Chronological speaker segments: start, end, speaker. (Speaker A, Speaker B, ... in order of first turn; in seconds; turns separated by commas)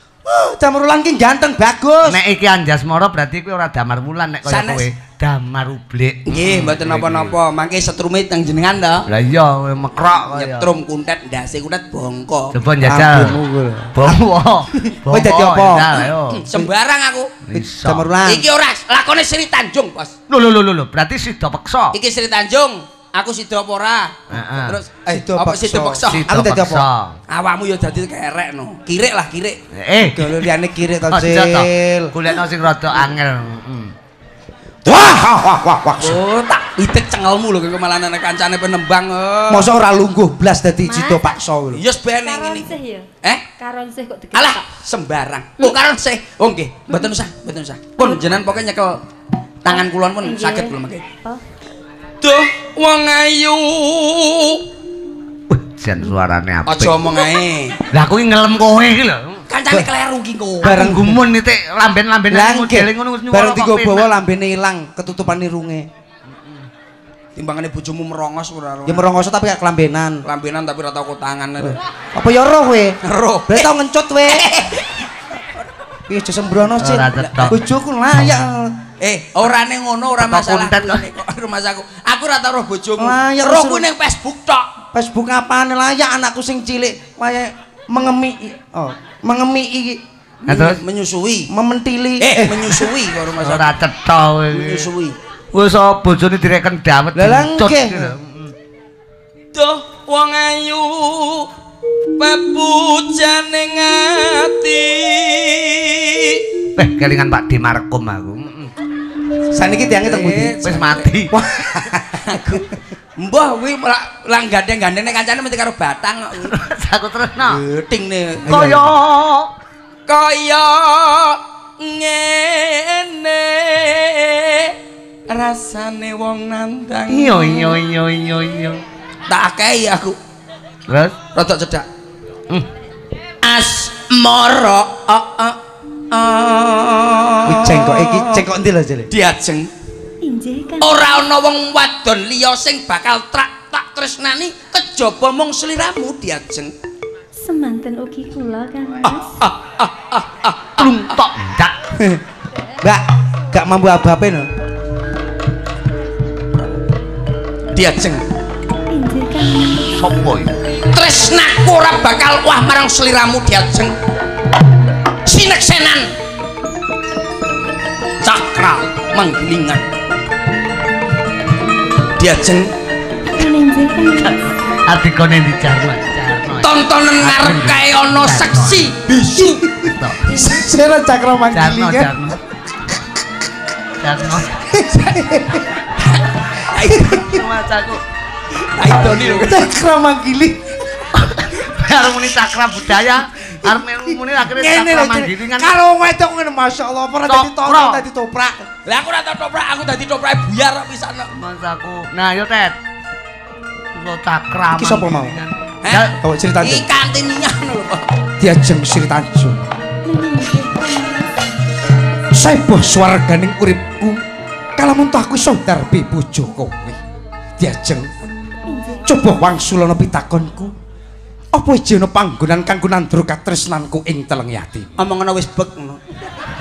Speaker A: 0.2-2.2, Speaker B: 2.1-7.3, Speaker C: 4.5-4.9, Speaker C: 6.3-9.1, Speaker B: 9.1-10.7, Speaker C: 10.3-12.6, Speaker B: 12.5-13.4, Speaker A: 12.8-14.2, Speaker B: 13.9-16.5, Speaker A: 14.9-16.7, Speaker C: 16.3-17.4, Speaker B: 17.5-18.1, Speaker A: 17.5-18.4, Speaker C: 18.2-20.1, Speaker B: 20.3-22.0, Speaker C: 21.9-26.3, Speaker B: 24.3-24.8, Speaker A: 25.1-26.9, Speaker B: 26.1-27.2, Speaker C: 27.3-29.6, Speaker B: 29.7-30.4, Speaker A: 30.0-32.1, Speaker B: 31.1-33.9, Speaker A: 34.9-36.2, Speaker C: 36.0-39.7, Speaker A: 39.5-41.8, Speaker D: 40.9-41.3, Speaker C: 41.7-43.5, Speaker D: 42.2-44.7, Speaker C: 44.3-49.0, Speaker C: 49.6-51.1, Speaker D: 49.7-51.4, Speaker C: 52.2-54.6, Speaker B: 55.5-57.1, Speaker C: 56.7-57.8, Speaker B: 57.9-59.4, Speaker C: 59.5-61.0, Speaker A: 60.6-61.2, Speaker B: 60.6-64.0, Speaker A: 62.3-65.9, Speaker C: 67.4-69.0, Speaker A: 68.9-70.2, Speaker C: 70.2-71.8, Speaker A: 72.1-74.5, Speaker C: 73.0-73.7, Speaker C: 74.3-75.6, Speaker A: 76.1-78.8, Speaker B: 76.8-77.6, Speaker C: 79.0-84.7, Speaker B: 80.2-81.1, Speaker A: 83.0-83.9, Speaker A: 84.9-90.0, Speaker C: 90.4-91.5, Speaker B: 90.5-90.8, Speaker A: 91.5-92.9, Speaker C: 92.2-93.8, Speaker B: 93.4-94.9, Speaker C: 94.5-95.2, Speaker B: 95.5-98.5, Speaker A: 97.1-98.1, Speaker C: 99.5-101.5, Speaker C: 102.2-106.4, Speaker B: 106.8-108.7, Speaker A: 109.5-110.6, Speaker C: 110.0-111.1, Speaker B: 110.6-111.4, Speaker A: 111.3-112.6, Speaker C: 112.2-116.5, Speaker B: 116.4-117.6, Speaker C: 117.4-118.8, Speaker B: 118.5-119.5, Speaker A: 118.5-118.9, Speaker C: 120.1-124.8, Speaker C: 125.3-127.8, Speaker B: 127.1-128.8, Speaker C: 129.3-130.2, Speaker B: 130.9-131.2, Speaker C: 131.3-131.9, Speaker C: 133.4-135.6, Speaker C: 136.1-138.4, Speaker A: 137.5-139.1, Speaker C: 139.1-139.7, Speaker D: 140.2-141.1, Speaker C: 140.8-146.7, Speaker D: 147.4-149.3, Speaker C: 149.4-151.2, Speaker B: 150.8-151.8, Speaker A: 152.0-152.2, Speaker A: 152.8-154.5, Speaker C: 157.7-158.2, Speaker D: 158.9-160.1, Speaker B: 159.9-160.5, Speaker C: 160.9-163.9, Speaker C: 165.2-166.1, Speaker C: 168.2-169.9, Speaker C: 172.2-172.7, Speaker D: 173.3-174.5, Speaker B: 174.2-178.9, Speaker C: 176.6-179.6, Speaker A: 179.4-182.1, Speaker B: 179.8-180.2, Speaker D: 180.3-180.6, Speaker B: 181.5-182.4, Speaker B: 184.0-184.6, Speaker A: 184.6-185.8, Speaker C: 186.0-187.3, Speaker A: 186.8-187.4, Speaker B: 187.2-188.0, Speaker C: 188.6-189.7, Speaker A: 188.9-190.7, Speaker B: 191.1-195.7, Speaker A: 193.6-198.7, Speaker B: 197.3-198.0, Speaker C: 198.9-201.3, Speaker B: 201.3-202.8, Speaker B: 203.9-206.2, Speaker A: 204.8-205.4, Speaker C: 205.8-208.1, Speaker A: 206.2-206.9, Speaker A: 208.4-209.6, Speaker D: 210.0-211.3, Speaker A: 212.3-214.2, Speaker A: 214.8-217.0, Speaker A: 217.6-218.1, Speaker D: 218.7-219.2, Speaker A: 219.1-220.7, Speaker A: 221.5-224.9, Speaker C: 225.0-226.0